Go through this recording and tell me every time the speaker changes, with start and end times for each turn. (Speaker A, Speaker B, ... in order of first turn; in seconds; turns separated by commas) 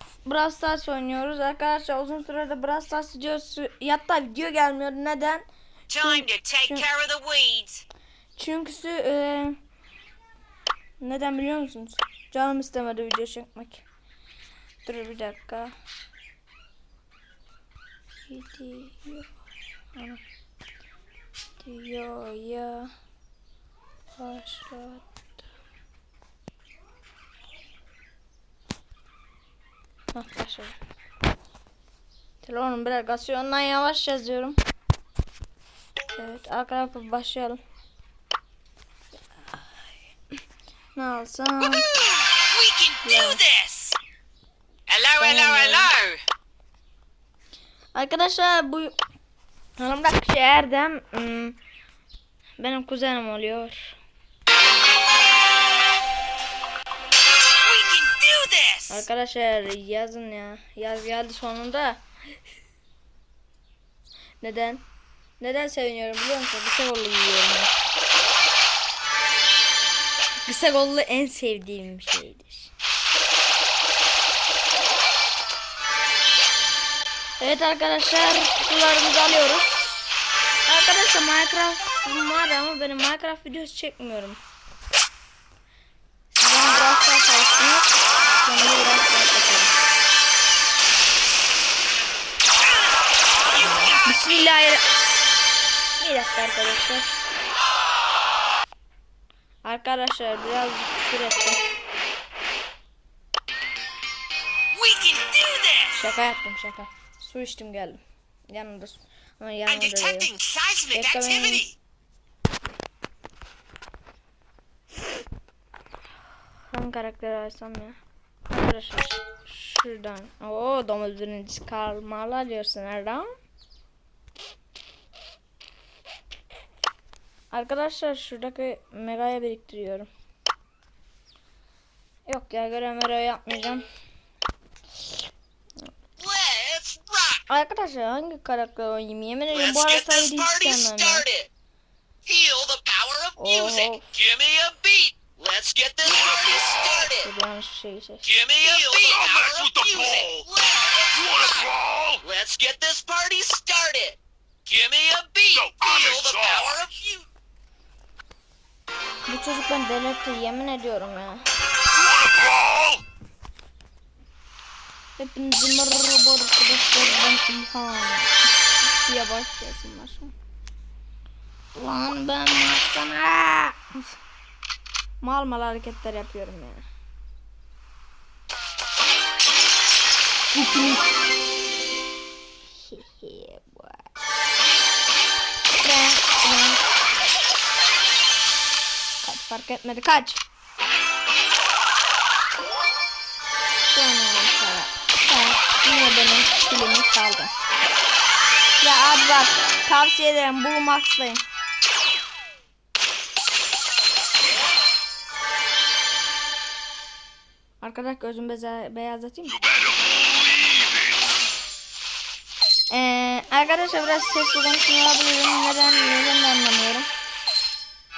Speaker A: 0.2-5.4, Speaker B: 5.9-7.8, Speaker A: 6.0-6.9, Speaker A: 8.4-9.6, Speaker A: 11.0-13.8, Speaker A: 14.8-15.7, Speaker A: 18.3-19.4, Speaker A: 19.9-20.2, Speaker A: 21.6-22.9, Speaker A: 24.2-25.1, Speaker A: 30.1-30.8, Speaker A: 32.4-34.6, Speaker A: 36.1-37.6, Speaker A: 40.9-41.9, Speaker B: 42.3-44.0, Speaker A: 43.0-43.4, Speaker B: 44.9-46.2, Speaker A: 45.2-45.9, Speaker A: 47.9-49.0, Speaker A: 49.8-51.6, Speaker A: 52.6-54.0, Speaker B: 57.6-59.0, Speaker A: 58.9-62.0, Speaker A: 64.4-64.8, Speaker A: 65.4-67.7, Speaker A: 70.5-72.7, Speaker A: 77.4-79.9, Speaker A: 80.7-84.4, Speaker A: 86.3-89.7, Speaker A: 94.0-94.8, Speaker A: 96.0-97.1, Speaker A: 99.6-101.6, Speaker B: 104.7-106.0, Speaker A: 105.9-110.3, Speaker B: 109.7-111.7, Speaker A: 110.9-111.6, Speaker A: 116.7-118.0, Speaker A: 118.5-123.3, Speaker A: 127.5-130.1, Speaker A: 132.2-133.8, Speaker B: 136.2-137.4, Speaker A: 137.5-141.2, Speaker B: 139.5-141.5, Speaker B: 142.2-147.3, Speaker A: 143.4-144.1, Speaker C: 146.2-146.9, Speaker A: 147.2-148.4, Speaker B: 148.2-151.7, Speaker C: 148.6-150.4, Speaker C: 151.1-152.2, Speaker B: 152.2-157.2, Speaker C: 155.5-156.8, Speaker A: 159.2-161.4, Speaker C: 161.9-163.0, Speaker A: 165.2-170.3, Speaker A: 171.7-173.8, Speaker A: 175.2-176.8, Speaker A: 180.5-181.0, Speaker A: 182.7-184.1, Speaker A: 185.8-186.8, Speaker A: 189.2-190.4, Speaker A: 193.9-197.5, Speaker A: 198.8-201.4, Speaker A: 207.8-209.6, Speaker C: 209.5-211.2, Speaker A: 212.9-217.1